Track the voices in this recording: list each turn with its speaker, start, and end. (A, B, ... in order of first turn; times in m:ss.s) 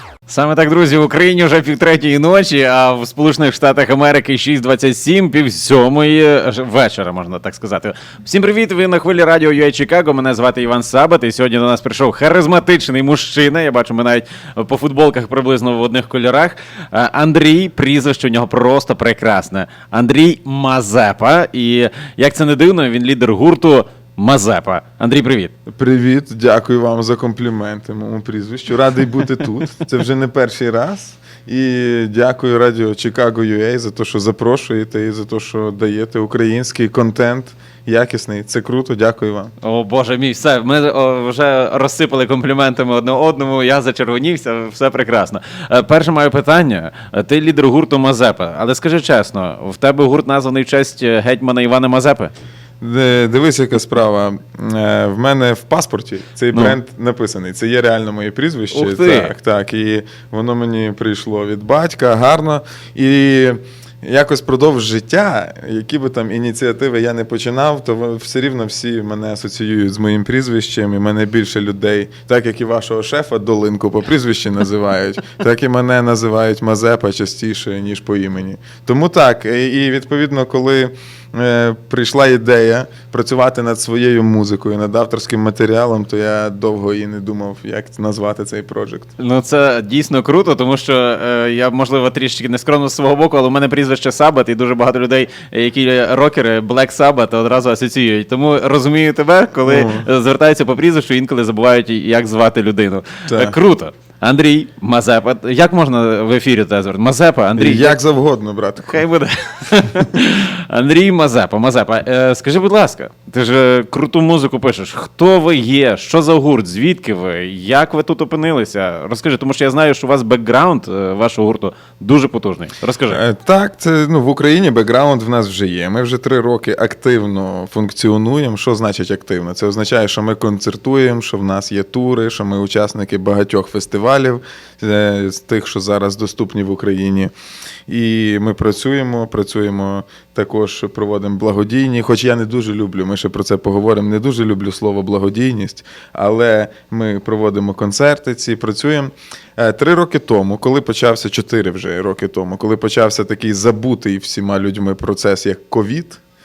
0:00.3-0:25.5 A
0:25.7-0:39.5 B
0:39.6-0:52.3 A
0:52.8-1:29.1 B
0:56.5-0:56.8 A
0:58.7-0:59.3 A
1:29.2-1:48.0 A
1:39.6-1:40.1 B
1:43.3-1:43.6 B
1:47.6-1:49.0 B
1:48.9-2:03.2 A
2:03.1-2:17.3 B
2:17.9-2:36.2 B